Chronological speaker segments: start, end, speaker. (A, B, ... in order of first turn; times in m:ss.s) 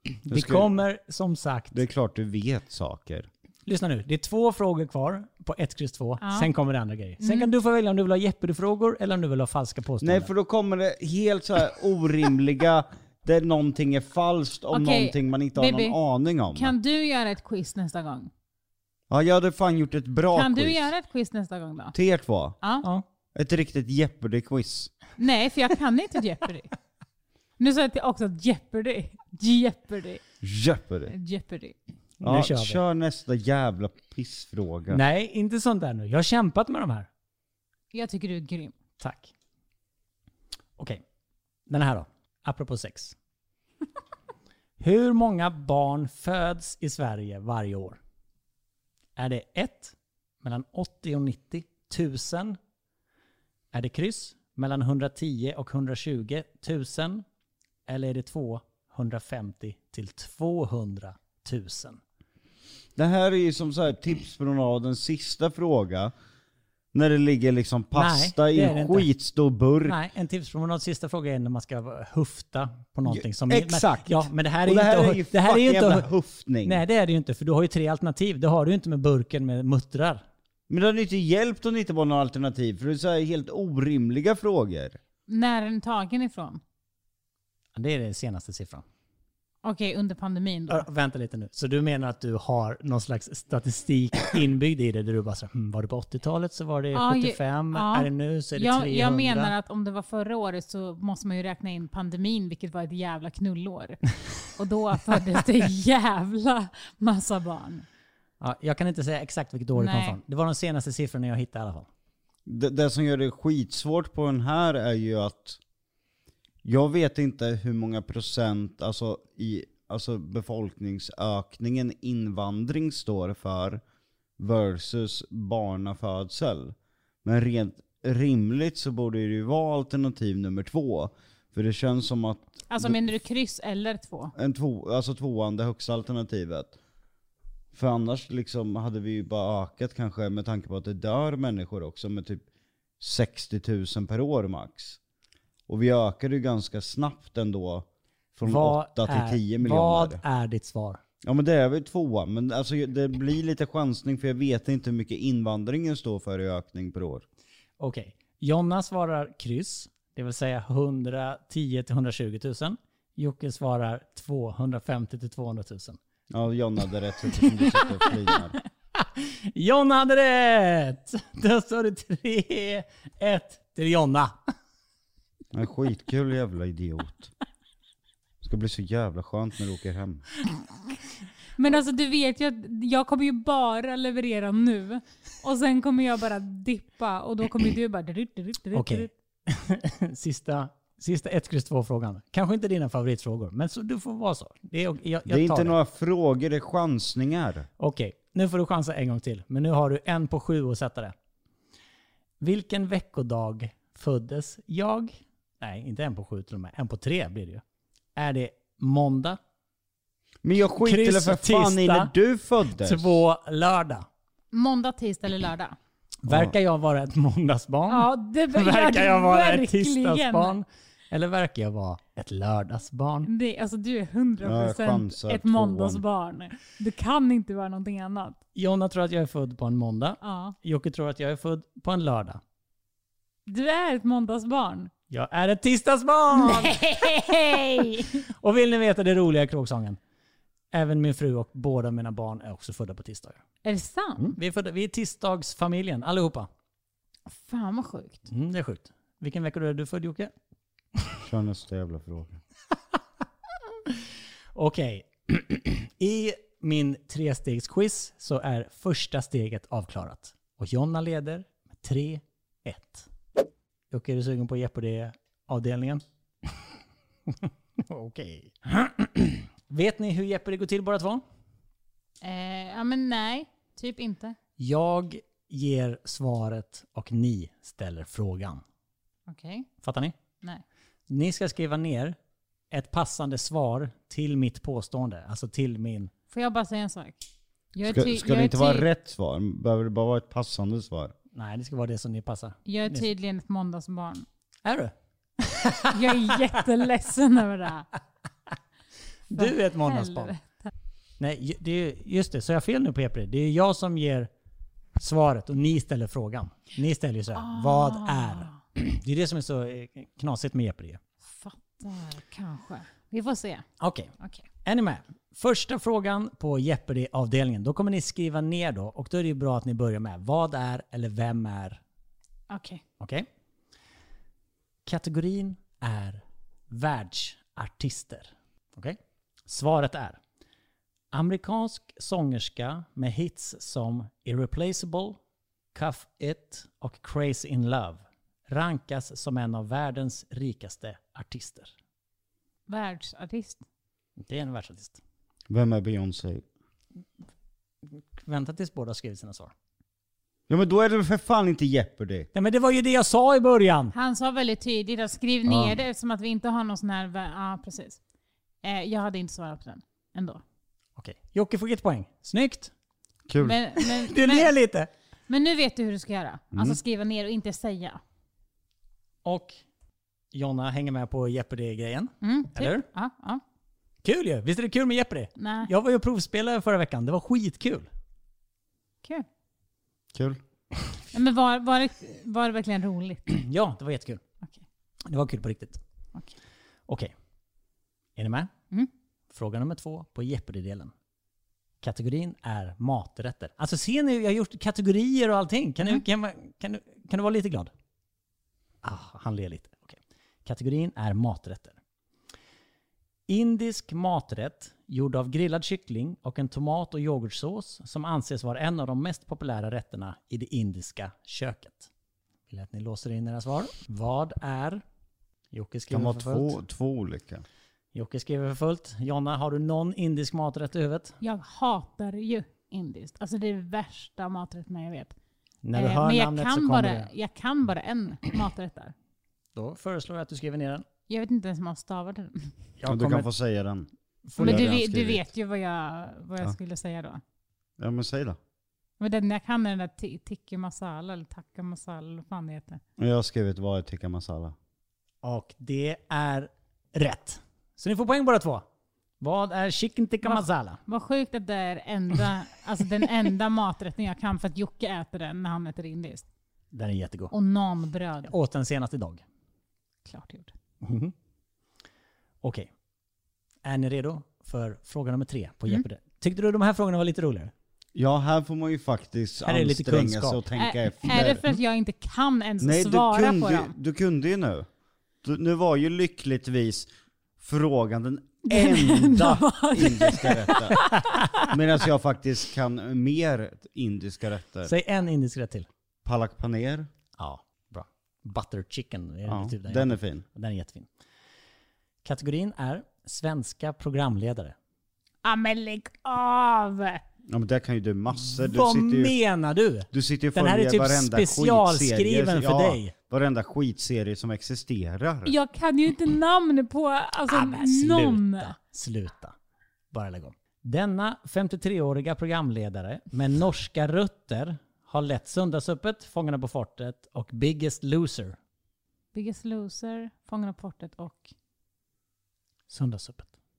0:00.3-0:01.8 A
0:00.3-0:00.8 B
0:01.7-0:03.3 B
0:03.6-0:10.3 A
0:06.2-0:06.5 C
0:07.2-0:07.5 C
0:10.0-0:16.7 B
0:14.7-0:16.0 C
0:16.5-0:18.3 C
0:19.1-0:20.9 B
0:20.3-0:22.0 C
0:21.9-0:22.6 B
0:23.3-0:24.9 B
0:25.2-0:26.7 C
0:27.6-0:30.2 C
0:30.4-0:31.1 B
0:31.1-0:31.8 C
0:32.2-0:32.8 A
0:32.2-0:35.0 B
0:34.9-0:37.1 A
0:37.9-0:38.7 C
0:39.0-0:39.3 A
0:41.7-0:43.1 A
0:44.8-0:48.0 A
0:49.2-0:52.6 A
0:53.7-0:57.2 A
0:57.9-1:02.0 A
1:03.0-1:06.1 B
1:06.9-1:10.0 B
1:07.9-1:09.1 A
1:09.8-1:16.1 A
1:13.1-1:16.8 B
1:16.6-1:20.2 A
1:20.7-1:25.0 B
1:25.3-1:26.6 C
1:27.7-1:28.8 A
1:29.6-1:30.8 C
1:30.7-1:39.5 A
1:36.9-1:47.8 C
1:48.4-1:51.9 A
1:49.8-1:50.2 C
1:52.4-1:55.6 B
1:56.6-2:03.8 B
2:04.4-2:13.0 B
2:12.7-2:14.3 C
2:14.4-2:16.7 B
2:17.7-2:22.4 B
2:23.0-2:25.0 B
2:25.7-2:30.2 B
2:28.4-2:31.0 A
2:31.2-2:37.2 B
2:37.8-2:46.0 A
2:46.3-2:48.6 B
2:49.0-2:54.5 A
2:55.5-2:57.3 B
2:58.4-3:00.2 B
3:01.6-3:09.1 C
3:08.7-3:15.8 A
3:15.3-3:17.7 B
3:17.8-3:21.1 A
3:22.4-3:27.6 A
3:28.2-3:29.4 A
3:30.4-3:33.2 B
3:30.8-3:32.1 A
3:32.8-3:34.0 A
3:34.5-3:35.8 C
3:36.2-3:43.3 A
3:36.3-3:36.5 B
3:37.9-3:40.6 C
3:43.2-3:48.4 C
3:44.4-3:46.0 B
3:48.5-3:52.4 A
3:50.2-3:50.6 C
3:53.4-3:54.9 C
3:55.1-4:00.0 A
3:56.3-3:58.2 C
4:00.7-4:03.4 A
4:03.6-4:04.4 C
4:04.2-4:06.5 A
4:07.3-4:08.3 C
4:08.3-4:10.3 A
4:11.2-4:12.4 B
4:14.5-4:23.1 A
4:23.9-4:26.6 A
4:27.3-4:31.2 A
4:32.2-4:34.4 C
4:34.6-4:38.6 A
4:39.3-4:39.7 C
4:39.8-4:40.2 A
4:41.1-4:42.2 A
4:42.7-4:46.1 A
4:46.3-4:47.2 C
4:47.7-4:48.8 C
4:47.8-4:51.1 B
4:51.3-4:53.0 A
4:52.6-4:54.2 C
4:54.6-4:56.4 A
4:55.9-4:57.9 C
4:59.3-5:00.4 A
4:59.3-5:00.7 C
5:01.2-5:04.3 A
5:05.0-5:11.0 A
5:07.3-5:08.6 C
5:11.3-5:13.6 C
5:13.8-5:14.1 A
5:14.6-5:21.8 A
5:22.5-5:22.8 C
5:23.0-5:23.3 A
5:24.8-5:30.2 A
5:31.1-5:35.2 A
5:35.7-5:41.7 A
5:42.7-5:43.6 C
5:44.2-5:45.0 A
5:45.5-5:46.4 B
5:47.8-5:49.5 A
5:50.5-5:52.3 B
5:52.3-5:53.9 A
5:53.9-5:58.0 C
5:55.4-5:55.8 B
5:58.6-6:00.4 C
6:01.0-6:02.7 A
6:03.3-6:03.6 B
6:03.4-6:04.5 C
6:03.8-6:04.9 A
6:05.3-6:08.0 C
6:06.5-6:06.8 B
6:09.2-6:09.6 A
6:10.3-6:12.8 A
6:12.2-6:13.4 C
6:14.0-6:17.9 A
6:15.4-6:15.7 C
6:20.1-6:20.4 B
6:21.1-6:23.2 C
6:23.3-6:24.2 A
6:25.0-6:25.8 A
6:26.9-6:27.1 A
6:28.2-6:28.5 A
6:29.3-6:30.9 A
6:31.8-6:37.7 A
6:38.8-6:41.8 A
6:43.3-6:51.9 A
6:52.5-6:54.8 A
6:55.5-6:56.6 A
6:55.9-6:57.4 B
6:57.9-7:01.2 A
7:01.2-7:05.1 C
7:05.6-7:07.1 A
7:05.7-7:08.9 C
7:09.6-7:10.8 A
7:11.1-7:12.5 C
7:12.8-7:13.3 A
7:12.8-7:15.2 B
7:14.2-7:14.7 A
7:14.4-7:17.2 C
7:17.8-7:18.4 B
7:19.0-7:22.8 C
7:23.0-7:24.6 B
7:25.2-7:28.6 A
7:29.2-7:30.8 A
7:30.2-7:36.2 C
7:36.7-7:37.3 A
7:37.3-7:38.3 C
7:38.2-7:39.2 A
7:40.0-7:40.5 C
7:40.8-7:41.1 A
7:42.4-7:42.7 A
7:43.6-7:47.5 A
7:47.9-7:51.4 B
7:49.4-7:50.4 A
7:50.6-7:53.7 C
7:52.6-7:54.7 B
7:55.2-7:56.9 B
7:57.4-8:00.8 B
7:58.5-8:01.5 C
8:01.5-8:04.7 B
8:04.6-8:05.7 A
8:06.0-8:06.9 B
8:07.2-8:10.9 A
8:09.3-8:10.2 B
8:12.0-8:14.5 A
8:15.2-8:17.0 C
8:17.3-8:19.1 B
8:18.2-8:22.9 A
8:19.9-8:25.3 B
8:25.2-8:28.5 C
8:27.3-8:29.3 A
8:29.9-8:38.4 A
8:39.1-8:41.3 C
8:42.7-8:43.3 A